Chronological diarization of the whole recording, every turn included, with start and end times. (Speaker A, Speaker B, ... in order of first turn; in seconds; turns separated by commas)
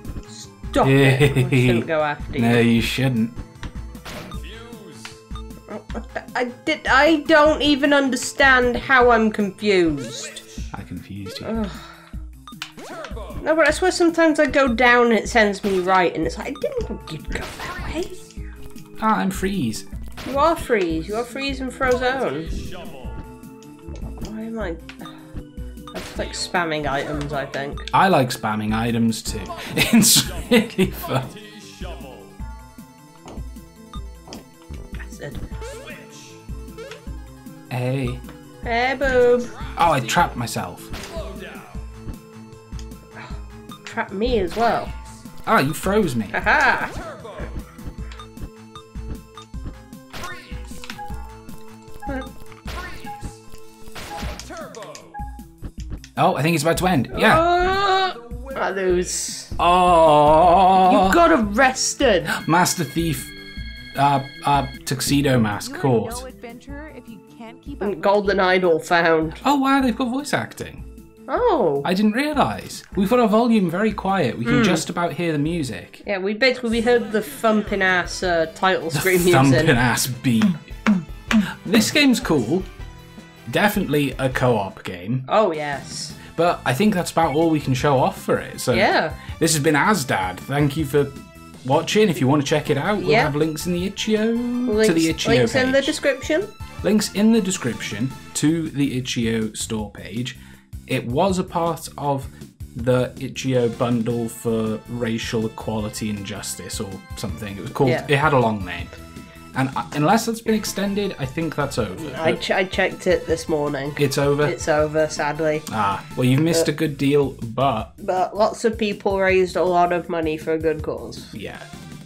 Speaker A: 0.3-2.7, Speaker B: 0.8-3.4, Speaker A: 5.7-10.4, Speaker B: 10.7-11.5, Speaker A: 11.4-11.9, Speaker A: 13.4-18.2, Speaker B: 19.0-19.9, Speaker A: 20.2-22.6, Speaker A: 24.2-25.1, Speaker A: 25.9-27.9, Speaker B: 27.9-31.4, Speaker A: 35.0-35.4, Speaker B: 37.7-38.2, Speaker A: 38.6-39.6, Speaker B: 39.7-40.9, Speaker A: 43.2-44.9, Speaker B: 45.5-46.4, Speaker A: 46.3-47.0, Speaker B: 56.2-57.5, Speaker A: 57.1-59.6, Speaker B: 59.6-61.2, Speaker A: 60.8-62.3, Speaker B: 62.3-63.3, Speaker B: 64.0-66.2, Speaker C: 65.6-68.5, Speaker A: 67.8-69.4, Speaker B: 69.4-70.8, Speaker A: 71.3-71.9, Speaker B: 71.8-76.0, Speaker A: 74.5-74.8, Speaker A: 76.0-79.8, Speaker B: 78.9-80.8, Speaker B: 81.3-82.7, Speaker B: 83.5-85.2, Speaker A: 85.3-86.2, Speaker B: 86.3-96.0, Speaker A: 88.7-89.2, Speaker A: 93.0-93.3, Speaker A: 94.7-96.5, Speaker B: 96.8-108.9, Speaker A: 107.8-108.1, Speaker B: 109.5-112.4, Speaker A: 112.0-115.7, Speaker B: 114.0-114.6, Speaker B: 115.7-117.9, Speaker A: 118.0-121.3, Speaker B: 121.3-121.7